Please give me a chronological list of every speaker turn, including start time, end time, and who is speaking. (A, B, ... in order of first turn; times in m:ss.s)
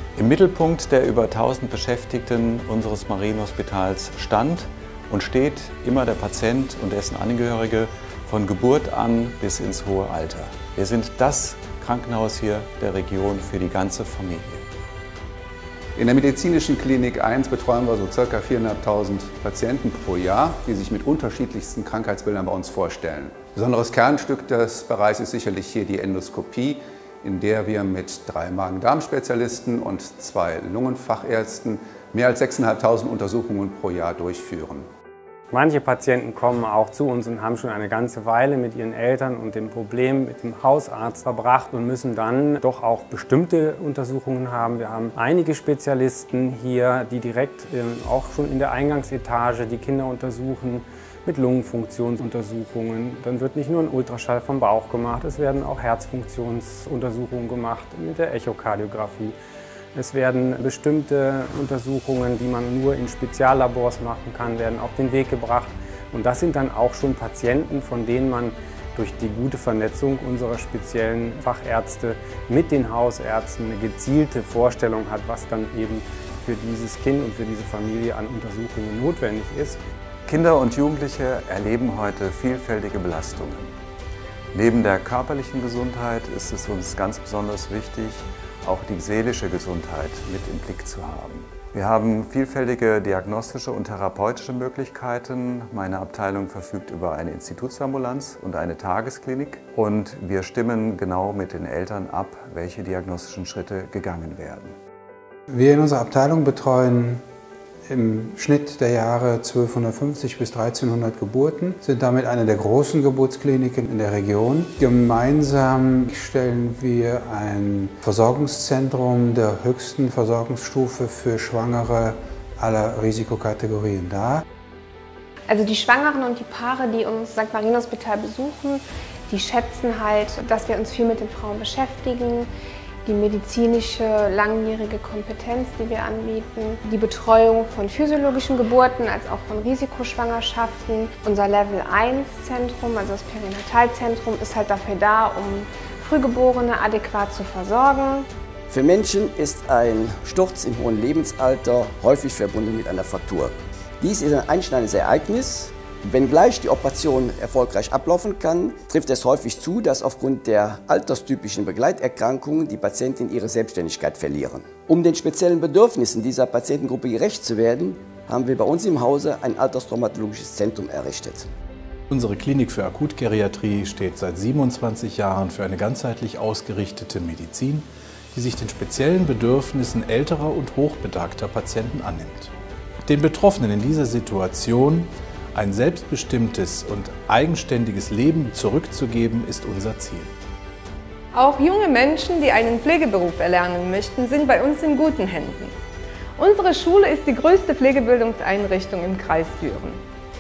0:00.2-0:14.6 A
0:16.0-0:34.9 B
0:35.5-0:59.4 C
1:00.0-1:19.8 C
1:20.3-1:23.7 A
1:24.5-1:44.8 A
1:45.5-1:47.2 D
1:47.9-2:04.4 D
2:05.5-2:12.5 E
2:13.0-2:28.3 E
2:28.7-2:51.5 F
2:52.1-3:02.5 G
3:03.0-3:10.4 G
3:11.3-3:15.8 H
3:16.4-3:20.0 H